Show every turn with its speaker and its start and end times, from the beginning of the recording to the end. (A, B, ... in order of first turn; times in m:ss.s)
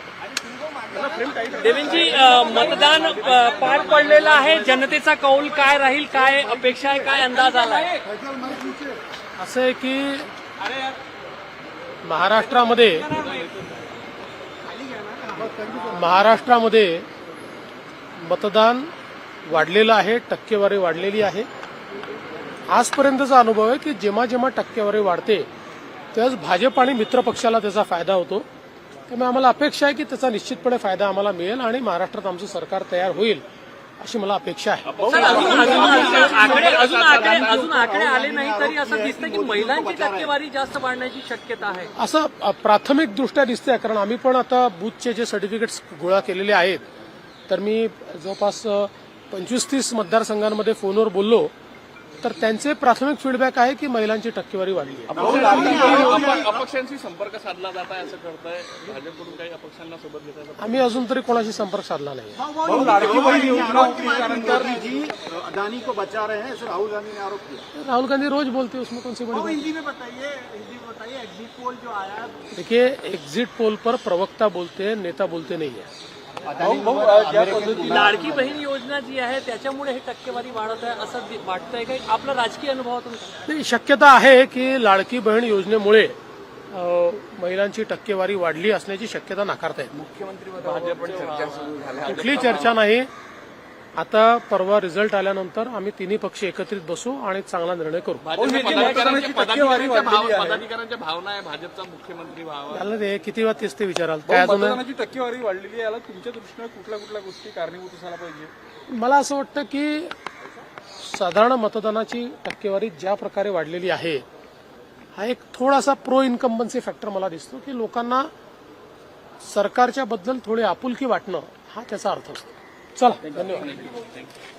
0:01.1-0:03.9 A
0:01.2-0:01.5 B
0:01.5-0:08.0 C
0:06.1-0:07.3 D
0:08.0-0:09.0 D
0:09.4-0:10.3 E
0:12.0-0:13.1 E
0:14.6-0:16.4 D
0:15.9-0:17.0 E
0:18.2-0:18.9 E
0:19.4-0:21.5 E
0:22.7-0:25.5 E
0:26.1-0:28.5 E
0:29.1-0:33.4 E
0:34.0-0:35.1 E
0:34.8-0:37.6 A
0:35.0-0:40.3 D
0:35.0-0:41.9 C
0:42.0-0:46.8 E
0:47.5-0:51.5 E
0:52.2-0:55.8 E
0:55.1-1:00.9 A
0:55.1-0:56.6 D
0:55.4-0:56.2 B
1:00.6-1:02.4 E
1:02.3-1:07.7 D
1:02.6-1:05.1 B
1:02.8-1:03.6 A
1:07.7-1:09.7 E
1:09.3-1:12.5 D
1:12.5-1:15.9 E
1:16.4-1:18.6 D
1:16.6-1:18.2 B
1:17.8-1:23.5 C
1:23.5-1:26.1 E
1:26.7-1:29.9 E
1:30.0-1:32.7 A
1:32.0-1:33.1 E
1:34.0-1:38.2 E
1:38.2-1:42.8 A
1:38.4-1:40.6 B
1:38.6-1:39.2 C
1:42.7-1:44.8 E
1:44.2-1:48.5 B
1:48.9-1:50.1 E
1:51.0-1:54.2 E
1:55.2-1:58.3 E
1:59.4-2:03.8 E
2:03.4-2:04.3 A